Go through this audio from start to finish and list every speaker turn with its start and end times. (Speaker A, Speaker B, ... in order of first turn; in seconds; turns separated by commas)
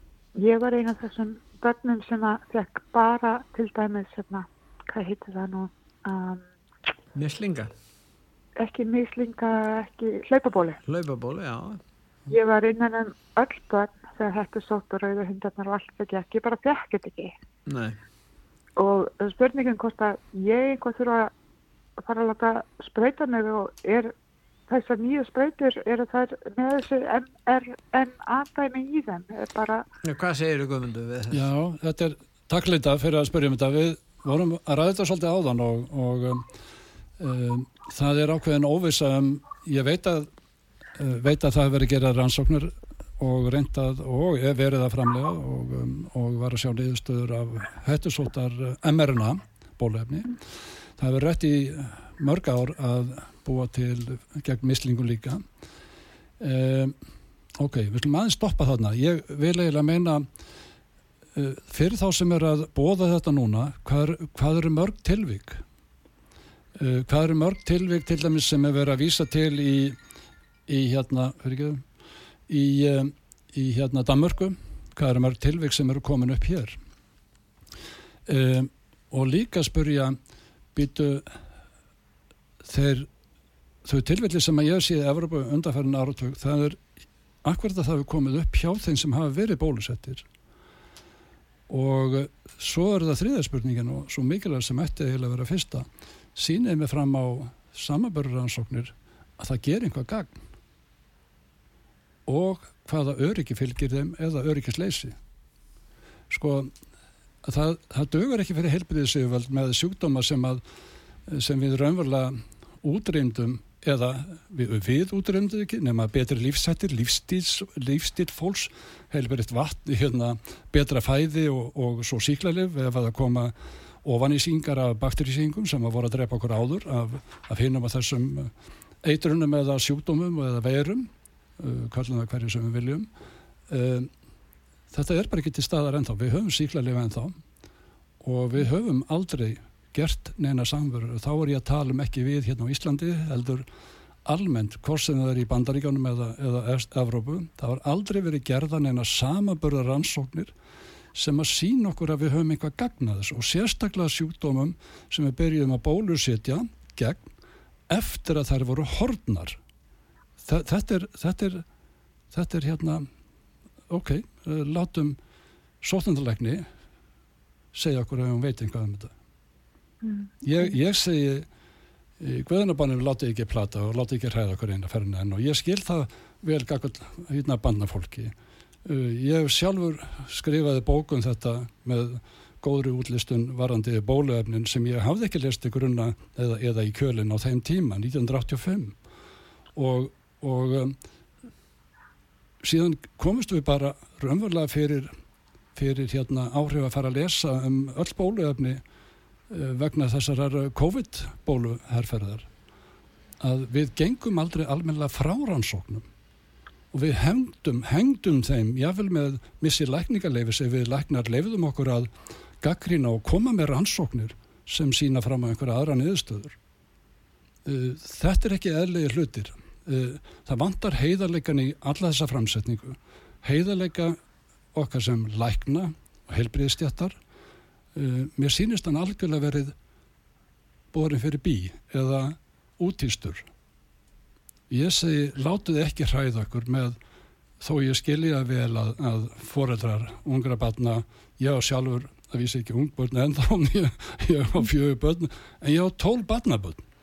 Speaker A: 0.3-6.4, Speaker B: 7.2-7.7, Speaker A: 8.6-10.8, Speaker B: 10.9-11.8, Speaker A: 12.3-17.3, Speaker B: 17.7-18.0, Speaker A: 18.8-21.3, Speaker A: 22.0-24.1, Speaker A: 24.7-29.9, Speaker B: 30.0-31.5, Speaker C: 31.3-36.5, Speaker C: 37.2-40.3, Speaker C: 41.0-50.4, Speaker C: 51.0-55.4, Speaker C: 56.4-57.0, Speaker C: 57.6-60.3, Speaker C: 61.3-65.6, Speaker C: 66.8-70.0, Speaker C: 70.7-71.8, Speaker C: 72.5-76.8, Speaker C: 78.3-80.2, Speaker C: 80.8-81.4, Speaker C: 82.6-83.1, Speaker C: 83.8-86.8, Speaker C: 87.4-90.2, Speaker C: 91.7-100.4, Speaker C: 102.3-105.2, Speaker C: 106.3-106.7, Speaker C: 107.4-110.6, Speaker C: 111.3-128.5, Speaker C: 129.0-133.1, Speaker C: 133.7-134.1, Speaker C: 134.9-137.4, Speaker C: 138.2-143.7, Speaker C: 144.2-150.5, Speaker C: 151.2-157.3, Speaker C: 157.9-159.6, Speaker C: 160.4-161.6, Speaker C: 162.3-163.1, Speaker C: 163.9-165.2, Speaker C: 165.8-166.7, Speaker C: 167.7-169.1, Speaker A: 170.0-170.3, Speaker C: 170.4-171.5, Speaker C: 172.2-178.3, Speaker C: 178.8-189.0, Speaker C: 189.8-191.0, Speaker C: 192.6-195.1, Speaker C: 195.8-198.8, Speaker C: 199.5-202.5, Speaker C: 203.4-206.1, Speaker C: 206.9-212.1, Speaker C: 212.6-216.6, Speaker C: 217.7-224.2, Speaker C: 224.7-227.2, Speaker C: 227.9-229.7, Speaker C: 230.9-233.5, Speaker C: 234.7-237.0, Speaker C: 237.6-246.8